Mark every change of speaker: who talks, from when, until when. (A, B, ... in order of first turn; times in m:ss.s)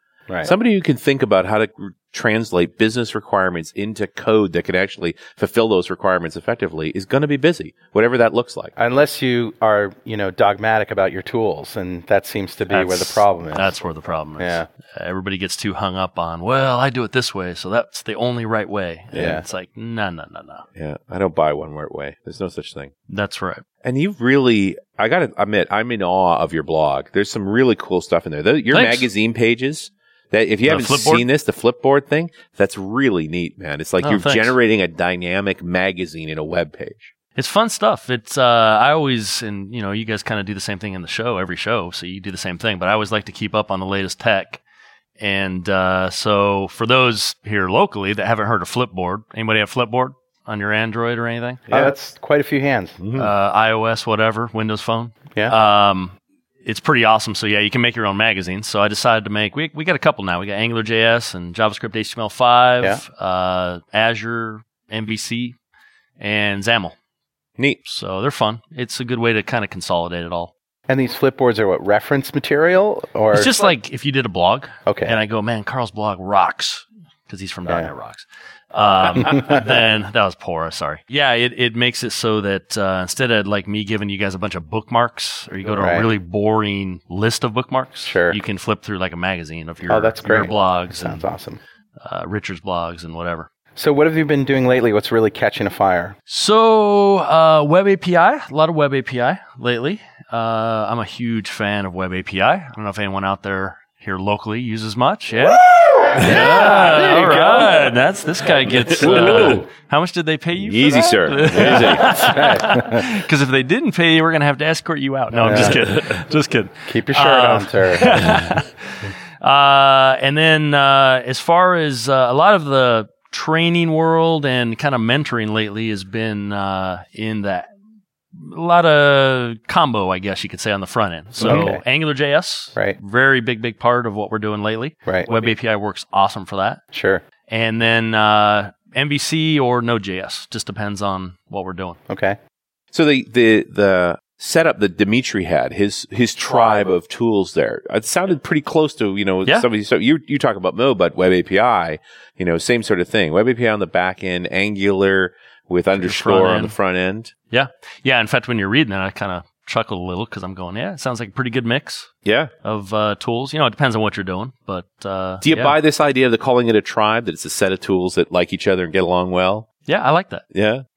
0:00.4-0:08.7 A
0:08.8-0:13.8 B
0:12.7-0:20.6 C
0:14.4-0:14.7 B
0:19.1-0:19.4 B
0:20.8-0:22.9 A
0:23.1-0:23.6 C
0:23.8-0:37.1 A
0:28.7-0:29.1 C
0:30.6-0:31.2 C
0:34.0-0:34.5 C
0:37.4-0:44.6 C
0:45.2-0:51.6 C
0:51.7-0:53.0 B
0:53.0-0:53.3 A
0:53.1-1:05.6 C
1:06.2-1:07.0 C
1:07.8-1:10.5 C
1:10.9-1:13.5 B
1:13.3-1:31.2 C
1:14.8-1:15.2 B
1:19.2-1:19.7 B
1:25.7-1:26.1 B
1:28.0-1:28.4 B
1:29.9-1:31.6 B
1:32.0-1:33.5 C
1:33.8-1:36.2 B
1:36.3-2:07.7 C
1:46.2-1:47.7 B
1:46.2-1:46.4 A
1:47.0-1:47.5 A
1:48.8-1:49.6 A
1:50.6-1:52.3 A
1:51.6-1:53.0 B
1:55.3-1:55.8 B
1:56.9-1:58.4 B
2:08.3-2:16.8 C
2:11.4-2:11.8 B
2:16.9-2:17.2 B
2:17.5-2:22.0 C
2:22.1-2:22.4 B
2:22.9-2:37.3 A
2:36.0-2:36.7 C
2:37.5-2:42.1 C
2:42.2-2:42.5 A
2:42.6-2:45.7 C
2:45.4-2:49.7 A
2:49.9-2:50.4 C
2:50.5-2:50.8 A